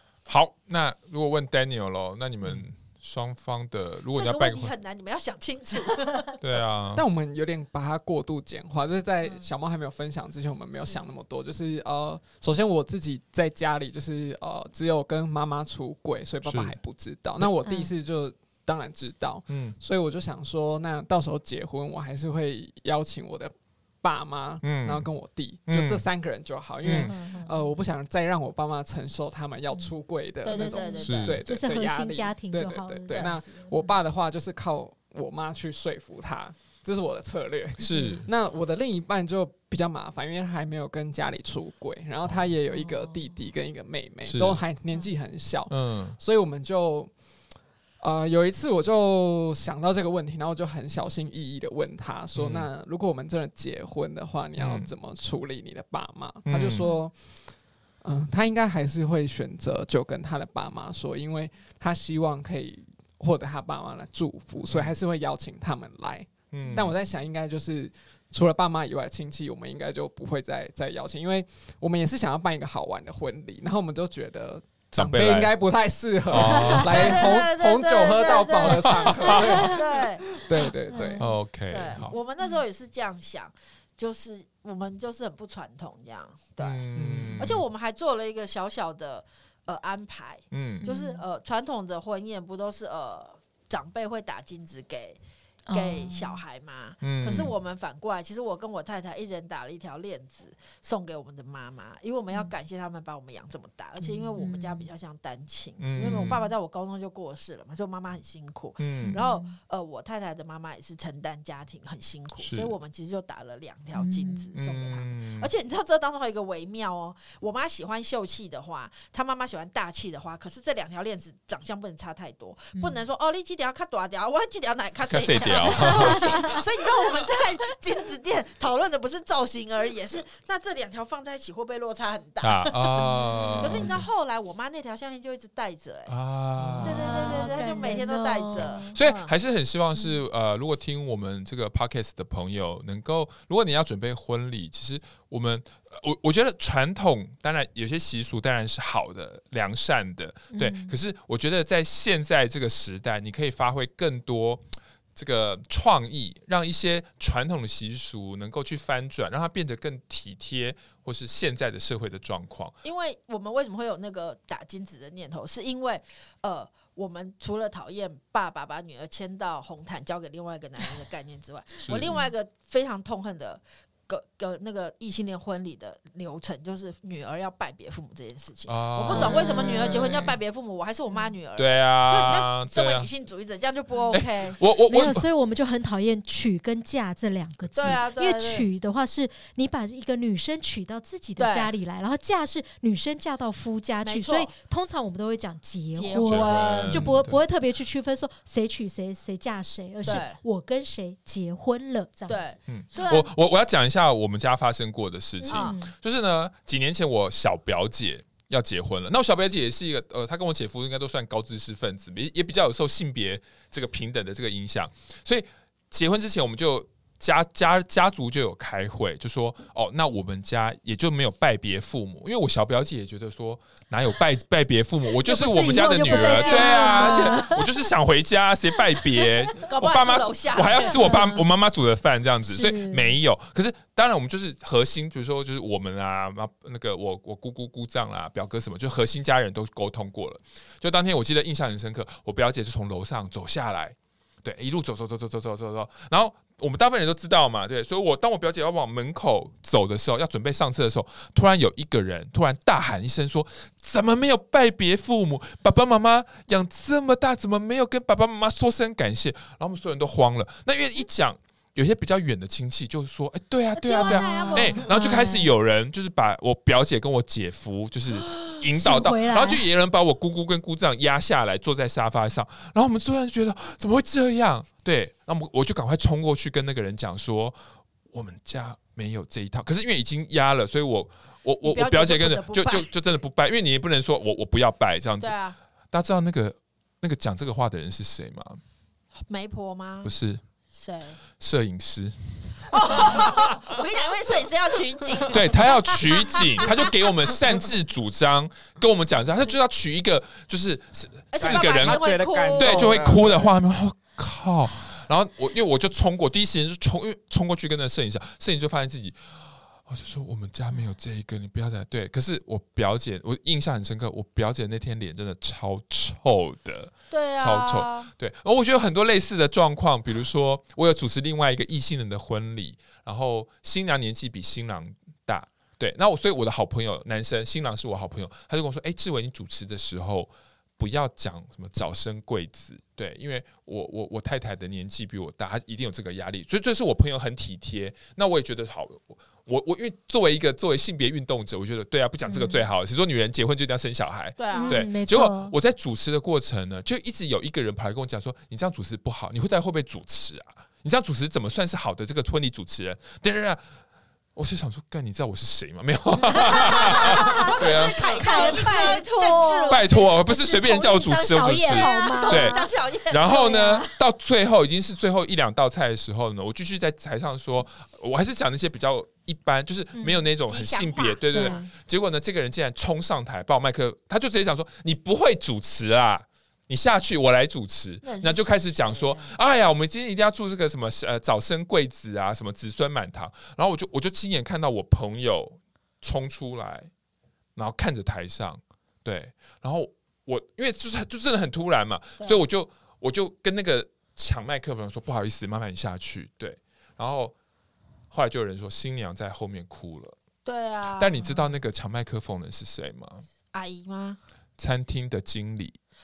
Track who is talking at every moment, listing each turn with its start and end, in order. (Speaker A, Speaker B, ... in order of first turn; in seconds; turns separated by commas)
Speaker A: 0.2-4.7, Speaker B: 4.1-6.3, Speaker A: 6.4-7.0, Speaker C: 6.9-47.2, Speaker D: 9.2-9.5, Speaker A: 16.4-16.8, Speaker D: 17.6-17.9, Speaker A: 19.5-19.8, Speaker A: 24.6-25.1, Speaker A: 25.6-26.0, Speaker A: 26.8-27.1, Speaker D: 26.9-27.7, Speaker B: 30.4-31.4, Speaker D: 30.4-33.9, Speaker A: 31.0-31.4, Speaker A: 37.8-38.3, Speaker D: 37.9-38.2, Speaker D: 42.6-43.4, Speaker A: 44.2-44.6, Speaker A: 45.7-46.2, Speaker C: 48.0-81.2, Speaker A: 52.3-52.7, Speaker A: 54.5-54.9, Speaker A: 56.4-56.9, Speaker A: 64.7-64.9, Speaker A: 66.5-66.9, Speaker D: 66.6-66.9, Speaker A: 74.9-75.5, Speaker A: 76.3-77.2, Speaker B: 76.9-80.3, Speaker D: 80.9-81.2, Speaker A: 81.2-82.1, Speaker B: 81.7-86.9, Speaker A: 86.6-87.6, Speaker C: 86.9-87.5, Speaker B: 87.4-95.2, Speaker A: 90.5-90.8, Speaker D: 90.8-91.2, Speaker D: 95.7-96.4, Speaker B: 95.7-136.1, Speaker A: 97.0-97.5, Speaker D: 104.0-104.9, Speaker A: 105.8-106.4, Speaker A: 108.8-109.2, Speaker D: 109.0-109.6, Speaker A: 112.4-112.7, Speaker D: 113.9-114.5, Speaker A: 114.5-115.5, Speaker D: 122.7-123.0, Speaker A: 125.1-126.5, Speaker D: 125.4-126.6, Speaker A: 132.4-134.0, Speaker D: 133.4-133.9, Speaker A: 136.1-137.6, Speaker D: 136.8-138.9, Speaker B: 136.8-139.3, Speaker A: 138.5-154.6, Speaker D: 150.5-150.9, Speaker A: 155.1-162.7, Speaker B: 162.8-184.6, Speaker A: 178.7-180.3, Speaker D: 179.1-180.3, Speaker A: 181.6-183.1, Speaker A: 184.1-185.2, Speaker D: 184.8-202.5, Speaker B: 187.7-188.7, Speaker B: 191.4-191.7, Speaker B: 194.0-194.5, Speaker B: 195.9-197.1, Speaker A: 196.1-197.4, Speaker B: 200.0-200.4, Speaker B: 202.3-203.3, Speaker A: 202.7-277.6, Speaker D: 205.4-205.9, Speaker B: 205.4-205.8, Speaker D: 225.2-227.9, Speaker B: 226.1-227.5, Speaker D: 228.9-229.5, Speaker B: 229.6-231.2, Speaker D: 230.6-231.4, Speaker D: 232.4-233.2, Speaker B: 263.8-265.0, Speaker D: 263.9-265.5, Speaker D: 268.5-269.6, Speaker A: 278.1-285.3, Speaker B: 281.6-282.9, Speaker B: 285.2-285.6, Speaker A: 285.9-288.6, Speaker B: 289.2-290.1, Speaker A: 290.0-290.4, Speaker B: 290.7-291.2, Speaker A: 291.3-293.4, Speaker B: 292.7-296.9, Speaker A: 295.3-353.7, Speaker B: 301.3-303.0, Speaker C: 301.4-303.5, Speaker B: 317.1-318.1, Speaker D: 342.2-342.6, Speaker B: 344.4-344.8, Speaker D: 344.5-345.5, Speaker A: 354.3-358.6, Speaker B: 356.4-363.8, Speaker D: 356.5-360.0, Speaker A: 359.7-386.9, Speaker D: 361.2-362.7, Speaker D: 369.9-370.2, Speaker B: 370.5-371.6, Speaker D: 371.3-371.7, Speaker B: 378.0-379.4, Speaker A: 387.6-397.3, Speaker A: 398.1-400.2, Speaker B: 400.4-401.2, Speaker A: 400.9-403.2, Speaker B: 403.5-404.2, Speaker A: 404.6-405.8